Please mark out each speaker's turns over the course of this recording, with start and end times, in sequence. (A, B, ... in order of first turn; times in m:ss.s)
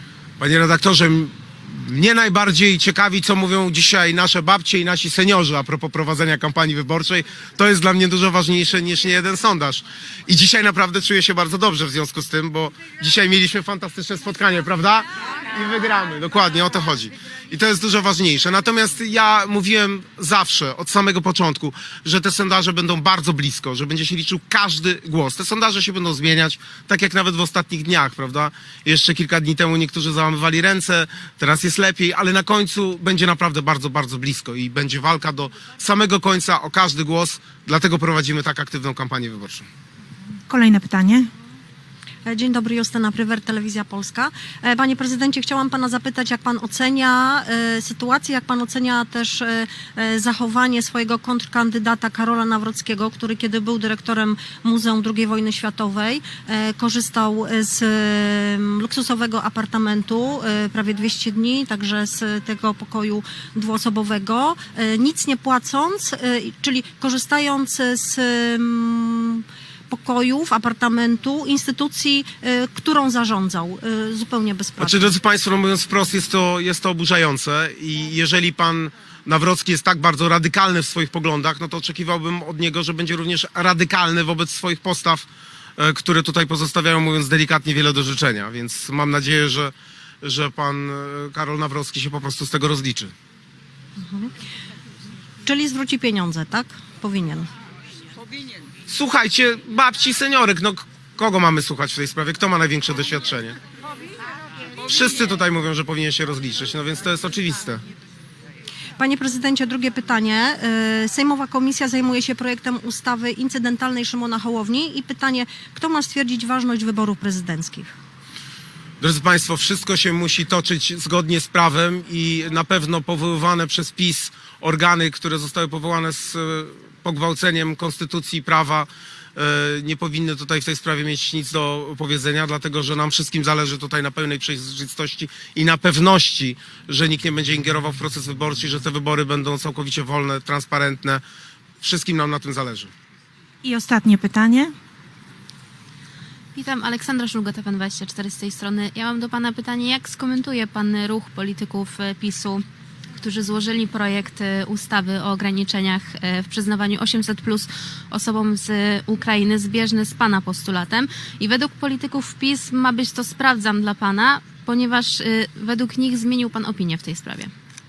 0:00.4-0:39.7 A
0:40.5-0:41.3 B
0:42.3-1:15.2 C
1:14.8-1:33.1 A
1:34.0-1:34.3 C
1:35.4-1:37.5 C
1:38.9-1:43.6 A
1:44.8-1:47.8 A
1:49.0-1:57.9 C
1:59.0-2:21.2 A
2:21.8-2:22.9 A
2:23.6-2:24.7 B
2:26.6-2:32.6 D
2:33.2-2:47.5 D